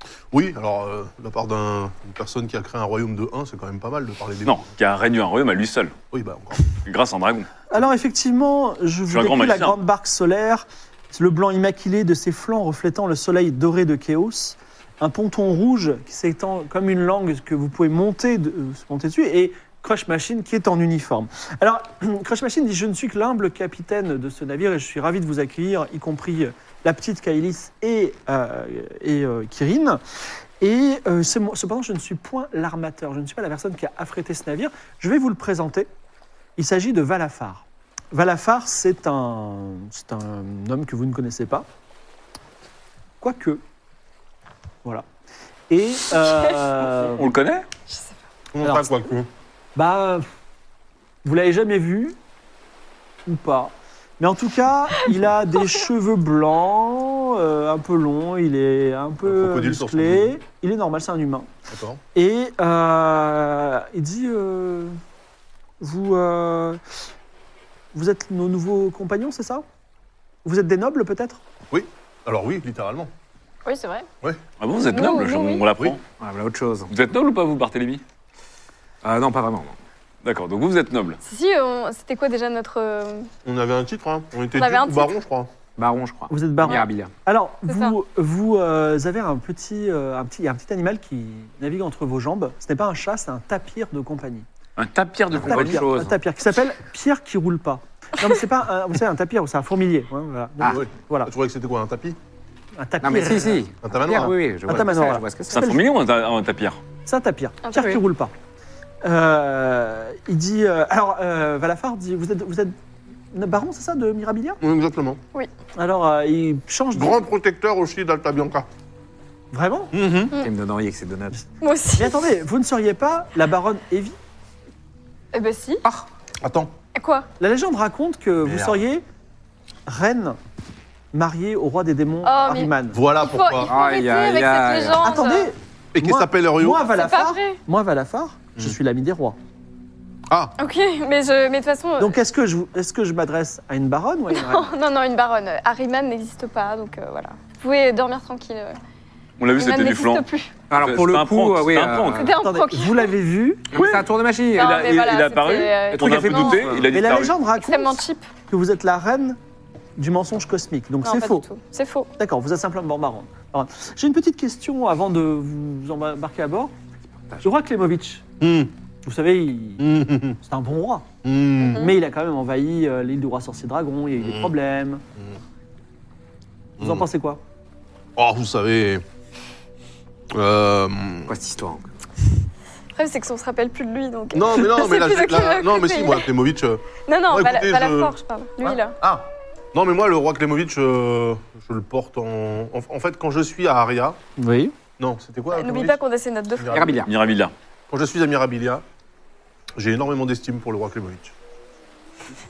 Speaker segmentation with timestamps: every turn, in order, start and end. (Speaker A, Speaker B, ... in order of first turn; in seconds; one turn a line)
Speaker A: 0.3-4.6
Speaker B: 4.5-5.9
Speaker A: 6.1-6.7
Speaker B: 6.8-7.7
Speaker C: 7.7-30.0
Speaker B: 9.1-9.8
Speaker C: 30.6-35.9
Speaker C: 36.6-41.6
Speaker C: 43.2-43.6
Speaker C: 45.7-47.4
Speaker B: 47.0-47.6
Speaker A: 48.5-49.3
Speaker C: 48.6-48.9
Speaker C: 49.8-50.3
Speaker C: 51.2-52.1
Speaker C: 53.2-61.5
Speaker A: 59.2-60.3
Speaker A: 61.7-62.0
Speaker C: 62.1-65.0
Speaker C: 65.8-66.8
Speaker C: 67.9-69.6
Speaker C: 70.5-71.4
Speaker A: 71.7-73.1
Speaker D: 73.6-74.1
Speaker B: 74.6-76.0
Speaker D: 74.9-75.7
Speaker E: 76.2-76.9
Speaker B: 76.9-78.0
Speaker E: 79.0-79.8
Speaker B: 80.2-81.2
Speaker D: 81.2-83.3
Speaker A: 83.5-85.5
Speaker D: 84.5-85.2
Speaker E: 85.8-87.1
Speaker C: 86.3-94.5
Speaker D: 87.7-87.9
Speaker B: 94.8-96.1
Speaker C: 95.3-101.3
Speaker A: 100.6-102.2
Speaker C: 102.8-103.7
Speaker E: 103.0-105.6
Speaker A: 103.8-104.4
Speaker C: 104.7-105.8
Speaker B: 105.5-106.8
Speaker C: 107.1-108.3
Speaker D: 107.7-108.0
Speaker C: 109.0-112.8
Speaker C: 113.3-114.6
Speaker A: 114.6-115.2
Speaker C: 115.8-117.2
Speaker A: 116.9-118.7
Speaker C: 119.5-119.9
Speaker A: 119.9-120.3
Speaker E: 120.3-121.4
Speaker D: 121.6-122.2
Speaker C: 122.0-124.2
Speaker D: 125.3-125.8
Speaker A: 126.4-126.7
Speaker D: 127.0-127.3
Speaker C: 127.4-129.0
Speaker A: 128.4-128.8
Speaker C: 129.9-130.4
Speaker C: 131.1-133.0
Speaker D: 132.2-135.5
Speaker A: 132.9-133.7
Speaker E: 133.7-135.1
Speaker C: 135.0-139.4
Speaker A: 135.9-136.9
Speaker D: 136.9-137.6
Speaker A: 140.3-140.6
Speaker D: 140.6-142.2
Speaker C: 142.0-144.7
Speaker D: 144.3-148.8
Speaker B: 149.4-152.3
Speaker D: 149.6-150.5
Speaker E: 150.7-152.3
Speaker D: 152.1-153.1
Speaker C: 152.4-153.7
Speaker E: 153.7-154.9
Speaker B: 153.7-154.0
Speaker D: 154.6-156.9
Speaker B: 154.6-157.3
Speaker C: 156.0-159.4
Speaker D: 157.6-158.3
Speaker C: 160.0-161.5
Speaker D: 161.0-162.1
Speaker C: 162.2-166.7
Speaker E: 167.2-167.5
Speaker C: 167.4-168.2
Speaker A: 168.4-168.7
Speaker C: 169.0-169.9
Speaker A: 169.8-170.4
Speaker C: 170.4-171.1
Speaker A: 171.2-171.8
Speaker C: 171.7-175.0
Speaker A: 174.2-174.5
Speaker A: 176.8-177.1
Speaker C: 176.8-177.4
Speaker A: 178.2-179.0
Speaker A: 180.3-181.3
Speaker E: 181.3-181.9
Speaker D: 182.9-186.3
Speaker A: 184.3-194.2
Speaker D: 187.1-189.0
Speaker C: 194.4-194.8
Speaker A: 195.0-196.0
Speaker D: 195.5-196.8
Speaker A: 196.6-197.1
Speaker E: 196.7-197.1
Speaker B: 197.0-197.5
Speaker A: 197.9-198.8
Speaker A: 199.8-201.3